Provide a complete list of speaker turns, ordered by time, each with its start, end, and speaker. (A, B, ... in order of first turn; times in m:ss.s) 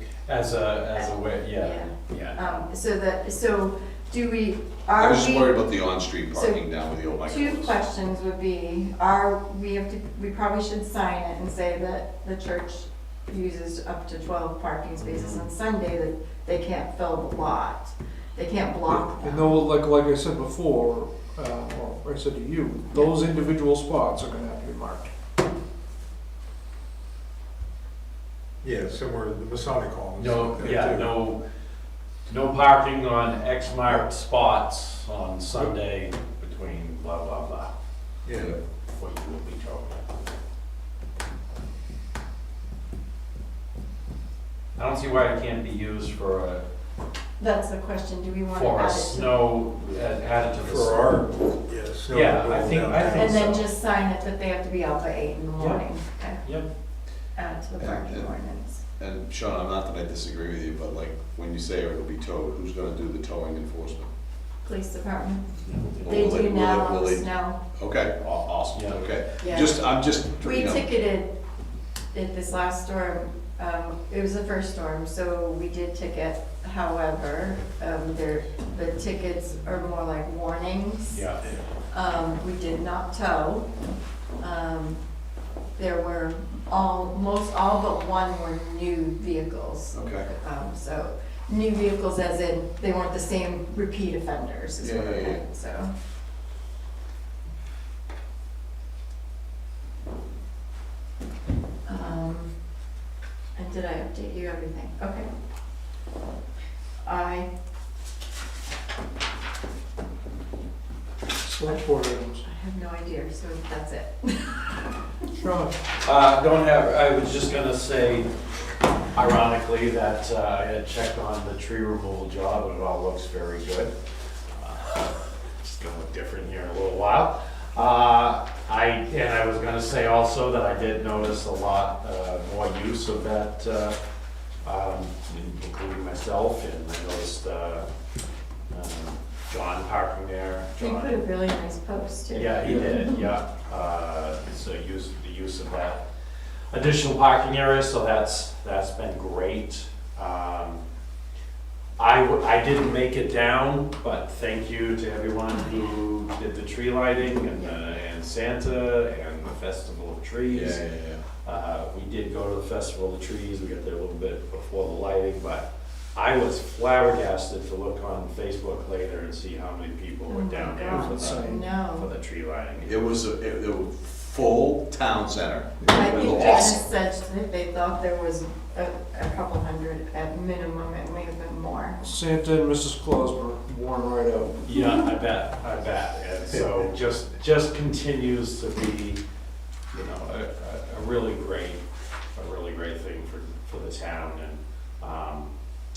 0:00.2-0:02.6 A
0:00.9-0:05.6 B
0:04.9-0:07.8 C
0:06.3-0:06.6 B
0:07.2-0:19.6 B
0:15.1-0:15.4 A
0:18.9-0:25.1 D
0:28.6-0:31.1 E
0:30.2-0:31.4 A
0:32.3-0:37.7 A
0:38.2-0:38.6 E
0:38.9-0:40.1 A
0:44.8-0:46.6 A
0:47.4-0:49.4 B
0:48.5-0:51.2 A
0:50.6-0:53.6 E
0:52.1-0:53.7 A
0:53.1-0:56.4 B
0:55.6-0:55.8 A
0:57.4-0:58.8 B
0:57.8-0:58.3 C
0:59.0-1:04.1 C
1:04.6-1:05.5 B
1:05.6-1:06.1 A
1:06.0-1:10.9 C
1:06.1-1:07.6 B
1:08.7-1:09.0 A
1:09.4-1:09.8 B
1:10.4-1:11.3 B
1:12.1-1:21.2 B
1:21.1-1:21.4 A
1:21.9-1:23.7 B
1:24.4-1:25.0 B
1:25.8-1:35.9 B
1:29.9-1:30.3 C
1:34.8-1:35.4 C
1:41.8-1:42.5 B
1:43.6-1:45.3 B
1:47.0-1:47.5 B
1:51.4-1:52.4 D
1:52.4-1:55.1 B
1:55.3-1:55.8 D
1:56.0-1:58.3 A
1:59.1-2:03.9 A
2:04.5-2:14.0 A
2:14.6-2:17.9 A
2:18.7-2:21.2 A
2:20.8-2:23.2 B
2:22.3-2:26.0 A
2:22.6-2:22.9 D
2:26.7-2:30.8 A
2:32.0-2:40.9 A
2:40.4-2:41.2 C
2:41.4-2:53.1 A
2:50.3-2:52.1 B
2:50.8-2:51.7 D
2:52.8-2:56.8 C
2:55.9-3:02.0 B
3:02.0-3:04.6 D
3:04.6-3:09.2 A
3:09.9-3:11.8 A
3:12.3-3:15.5 A